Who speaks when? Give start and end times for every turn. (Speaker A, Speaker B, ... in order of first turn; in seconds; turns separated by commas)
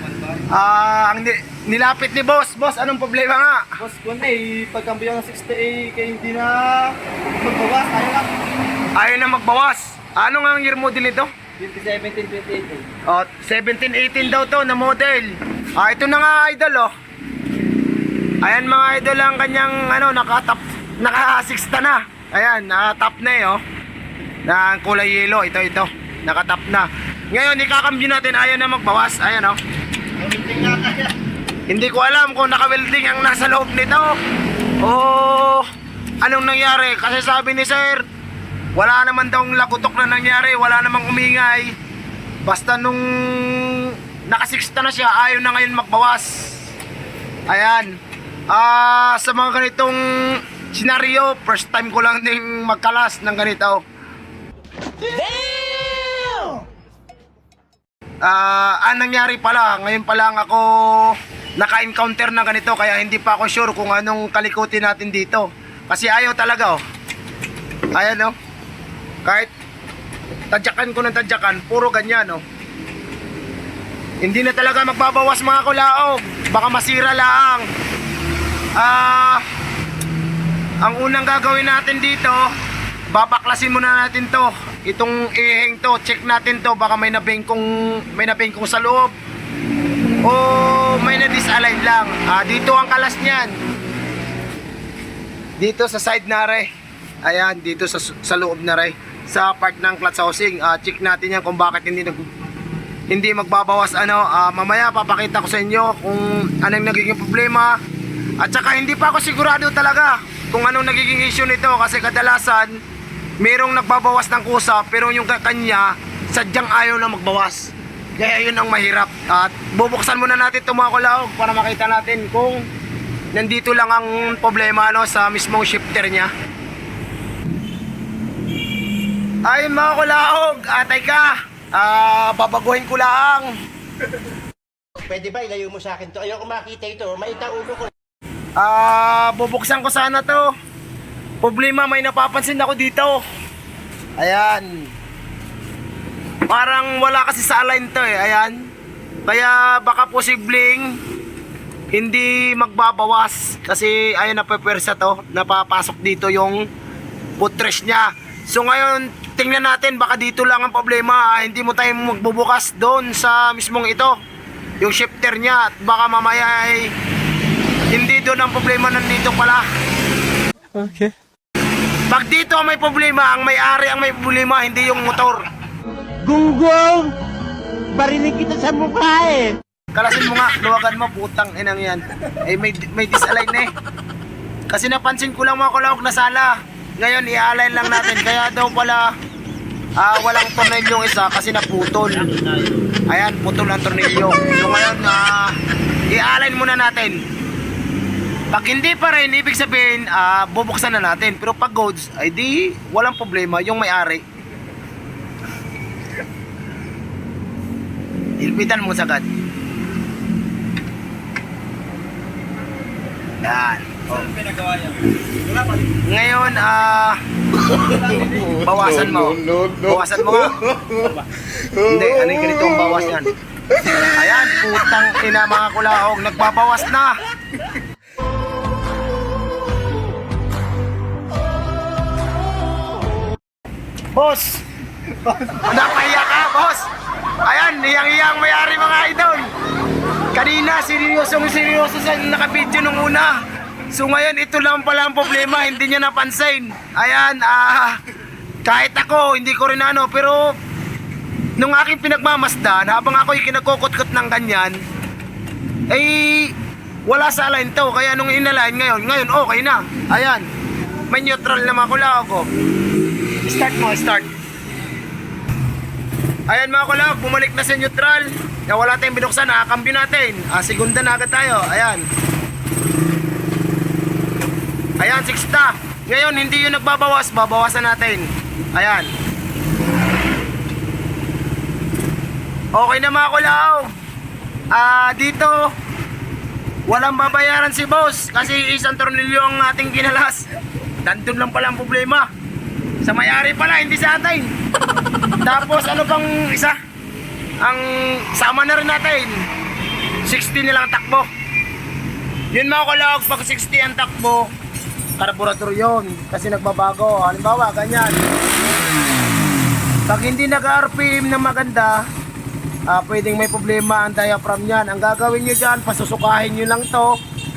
Speaker A: 0.5-3.6, Speaker B: 3.8-8.3, Speaker A: 8.9-11.3, Speaker B: 11.6-13.0, Speaker A: 13.1-16.9, Speaker A: 18.4-23.6, Speaker A: 24.5-29.6, Speaker A: 30.3-30.9, Speaker B: 30.4-31.1, Speaker A: 31.7-34.2, Speaker A: 34.8-35.7, Speaker A: 36.2-38.1, Speaker A: 38.8-41.7, Speaker A: 42.5-46.7, Speaker A: 47.5-48.0, Speaker A: 48.5-53.8, Speaker A: 58.2-66.8, Speaker A: 68.0-68.3, Speaker A: 69.2-69.5, Speaker A: 70.5-72.4, Speaker A: 74.2-77.7, Speaker A: 78.8-79.4, Speaker A: 80.8-82.4, Speaker A: 83.1-89.1, Speaker A: 90.2-93.6, Speaker A: 95.6-96.7, Speaker A: 97.2-102.3, Speaker A: 103.1-107.8, Speaker A: 108.4-112.8, Speaker A: 113.4-122.7, Speaker A: 123.3-126.3, Speaker A: 129.5-133.5, Speaker C: 135.0-137.9, Speaker A: 138.6-140.5, Speaker A: 141.4-143.2, Speaker A: 144.2-144.9, Speaker A: 146.5-148.6, Speaker A: 149.3-151.0, Speaker A: 151.9-156.6, Speaker A: 157.4-164.2, Speaker A: 164.8-166.9, Speaker A: 167.9-169.7, Speaker C: 170.7-171.1, Speaker A: 172.1-175.4, Speaker C: 176.2-177.2, Speaker C: 177.9-179.6, Speaker A: 179.9-183.7, Speaker A: 184.7-189.1, Speaker A: 190.0-192.4, Speaker A: 193.0-195.6, Speaker A: 196.1-197.2, Speaker A: 198.5-204.2, Speaker A: 208.4-209.3, Speaker A: 213.4-214.4, Speaker B: 214.4-214.9, Speaker A: 216.0-217.2, Speaker B: 217.9-218.4, Speaker A: 218.3-220.6, Speaker A: 221.8-223.3, Speaker A: 223.9-227.2, Speaker A: 234.1-234.6, Speaker A: 235.4-236.9, Speaker A: 237.4-239.5, Speaker A: 240.3-243.3, Speaker A: 243.9-248.0, Speaker A: 248.7-250.5, Speaker A: 251.6-254.8, Speaker A: 255.9-256.5, Speaker A: 257.1-260.5, Speaker A: 261.1-262.5, Speaker A: 263.4-264.3, Speaker A: 266.5-272.0, Speaker A: 275.0-279.1, Speaker A: 282.8-283.9, Speaker A: 284.7-285.7, Speaker A: 286.9-290.5, Speaker A: 291.0-292.3, Speaker A: 293.0-294.5, Speaker A: 295.4-296.8, Speaker A: 297.6-299.4, Speaker A: 300.3-301.3, Speaker A: 302.5-304.5, Speaker A: 305.2-308.2, Speaker A: 310.1-312.0, Speaker A: 312.9-317.2